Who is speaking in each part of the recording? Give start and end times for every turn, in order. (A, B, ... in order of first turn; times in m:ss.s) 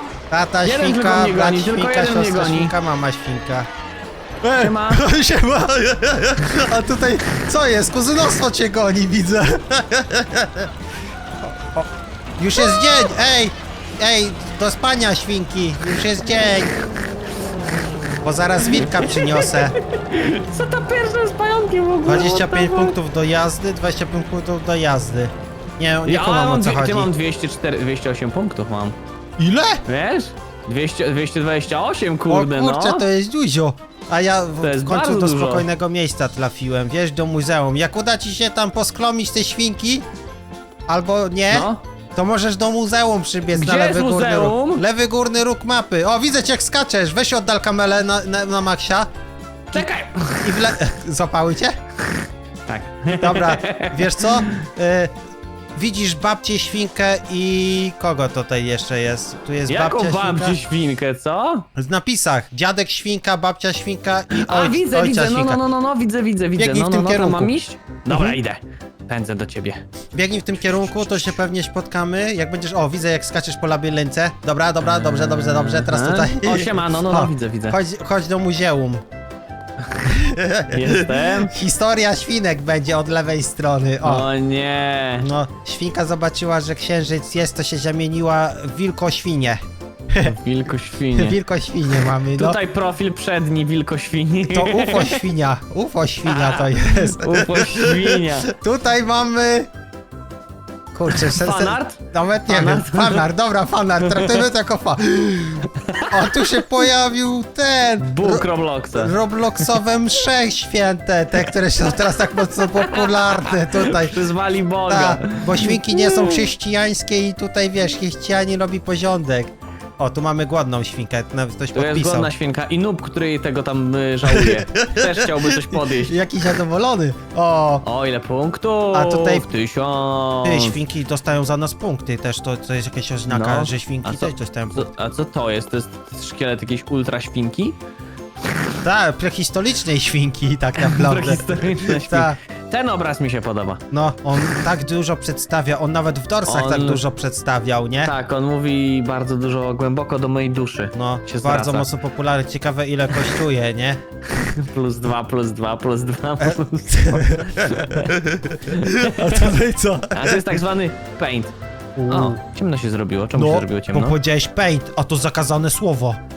0:00.3-0:03.7 A
0:00.6-0:02.7 B
0:04.4-0:10.7 A
0:04.5-0:05.0 B
0:11.5-0:11.8 A
0:12.4-0:16.7 A
0:12.6-0:13.0 B
0:18.2-0:19.7 A
0:18.7-0:23.0 B
0:22.0-0:27.1 A
0:26.0-0:29.0 B
0:29.4-0:29.8 A
0:29.9-0:33.0 B
0:32.3-0:40.0 A
0:34.6-0:35.6 B
0:40.9-0:49.1 A
0:41.5-0:41.8 B
0:43.5-0:44.8 B
0:49.7-0:50.7 B
0:50.4-0:51.7 A
0:52.7-0:54.6 B
0:53.1-0:55.1 A
0:55.8-1:00.6 A
0:59.7-1:01.6 B
1:01.8-1:05.6 A
1:04.3-1:09.8 B
1:06.6-1:07.5 A
1:08.1-1:08.4 A
1:10.1-1:19.0 A
1:10.6-1:11.4 B
1:14.8-1:17.8 B
1:20.0-1:24.3 A
1:20.7-1:21.5 B
1:24.0-1:25.3 B
1:25.2-1:29.6 A
1:30.2-1:31.4 B
1:31.1-1:32.6 A
1:32.4-1:35.2 B
1:34.5-1:39.7 A
1:36.3-1:38.5 B
1:40.9-1:54.2 A
1:41.1-1:43.2 B
1:44.0-1:44.4 B
1:45.7-1:46.7 B
1:48.0-1:49.7 B
1:52.4-1:56.5 B
1:54.9-2:02.3 A
2:01.7-2:06.1 B
2:04.2-2:07.8 A
2:07.8-2:10.8 B
2:08.9-2:09.4 A
2:10.4-2:14.9 A
2:13.3-2:17.8 B
2:18.8-2:22.4 A
2:20.8-2:23.8 B
2:23.9-2:28.1 A
2:26.4-2:27.0 B
2:28.0-2:31.9 B
2:30.9-2:34.0 A
2:34.6-2:38.1 B
2:36.4-2:40.6 A
2:38.6-2:39.5 B
2:40.1-2:41.5 B
2:42.0-2:42.4 A
2:42.1-2:44.1 B
2:43.3-2:46.2 A